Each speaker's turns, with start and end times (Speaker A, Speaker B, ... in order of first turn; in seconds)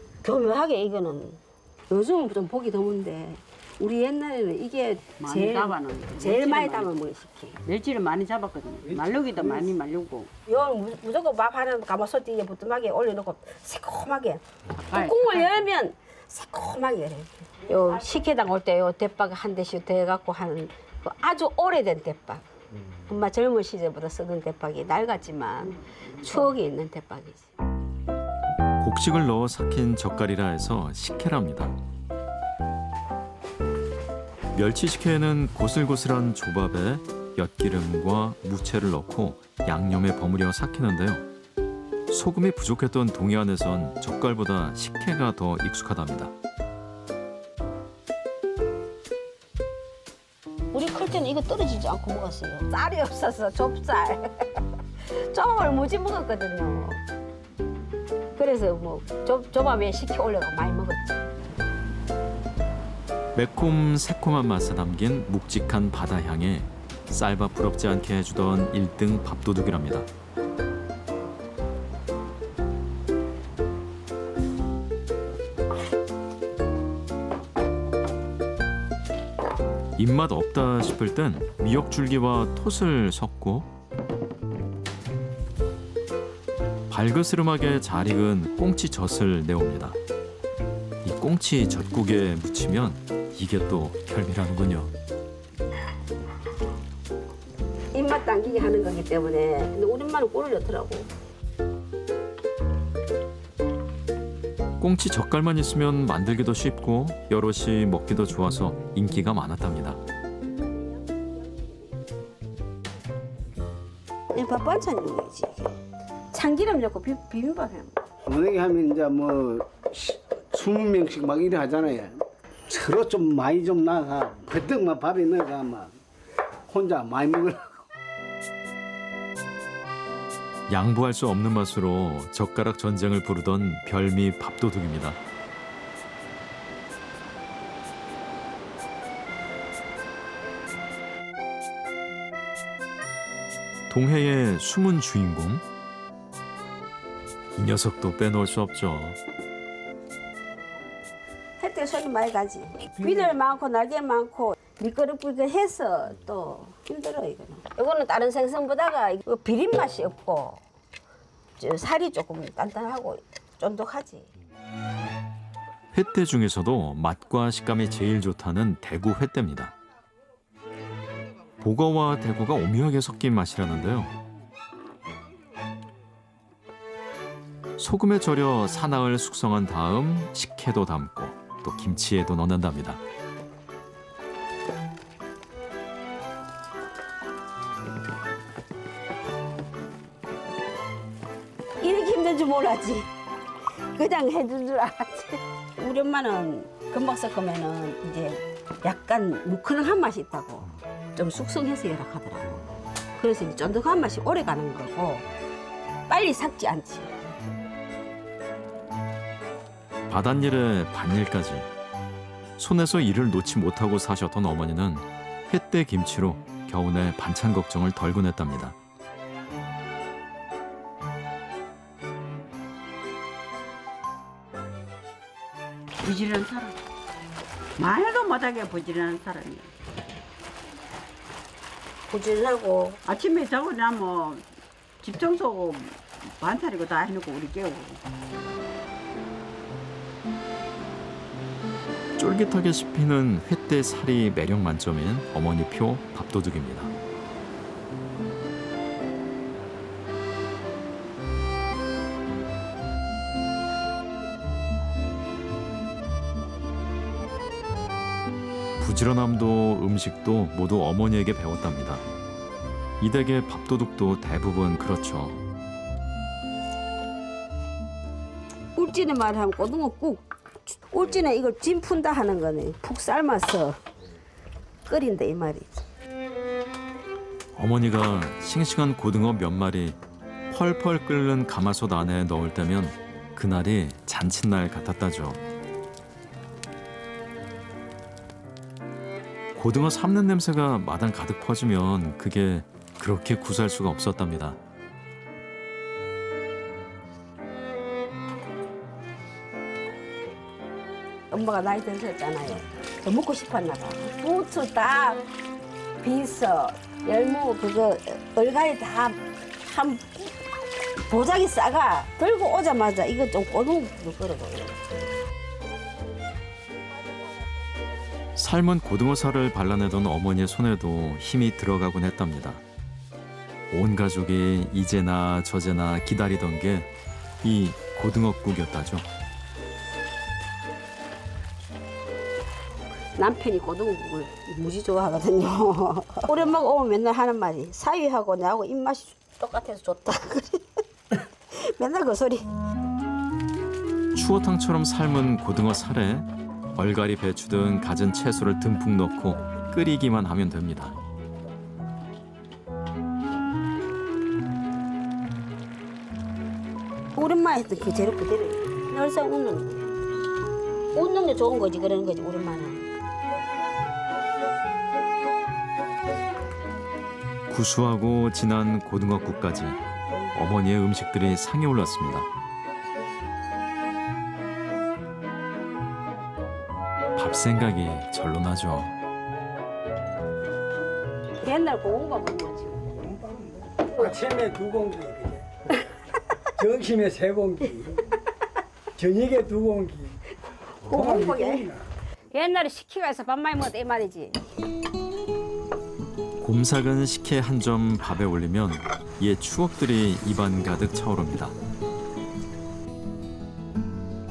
Speaker A: 0.2-7.6, 10.5-22.4, 23.1-27.5, 50.7-54.4, 55.1-57.0, 58.4-61.2, 97.9-101.1, 114.3-115.7, 116.3-118.0, 151.6-160.6, 161.6-164.3, 191.8-193.1, 193.9-202.7, 203.2-205.2, 206.1-207.1, 232.1-233.0, 268.8-273.8, 274.9-275.8, 301.3-305.2, 306.0-310.4, 311.1-314.8, 333.2-340.8, 341.5-342.4, 357.2-359.9, 360.9-362.9, 381.4-382.8, 390.8-391.7, 392.3-394.4
Speaker B: 5.2-6.9, 7.7-10.3, 14.8-15.6, 226.0-226.8, 227.8-229.7, 233.1-234.4, 235.0-238.0
Speaker C: 28.8-31.8, 34.5-41.3, 42.1-46.3, 63.3-70.1, 80.0-83.7, 86.9-90.0, 91.0-94.9, 104.8-110.0, 130.7-135.2, 143.9-145.6, 147.6-149.2, 165.9-169.8, 171.6-174.1, 177.8-183.0, 210.1-211.7, 212.6-218.8, 242.2-246.9, 258.8-262.0, 263.0-265.4, 277.6-280.0, 280.5-285.4, 289.6-294.6, 318.4-322.6, 323.7-326.9, 327.4-329.1, 344.1-350.9, 367.5-369.8, 370.3-372.3, 377.2-378.9, 396.4-401.6
Speaker D: 118.3-125.9, 126.7-127.8
Speaker E: 383.0-385.4, 386.6-388.0, 389.0-390.2, 390.8-391.8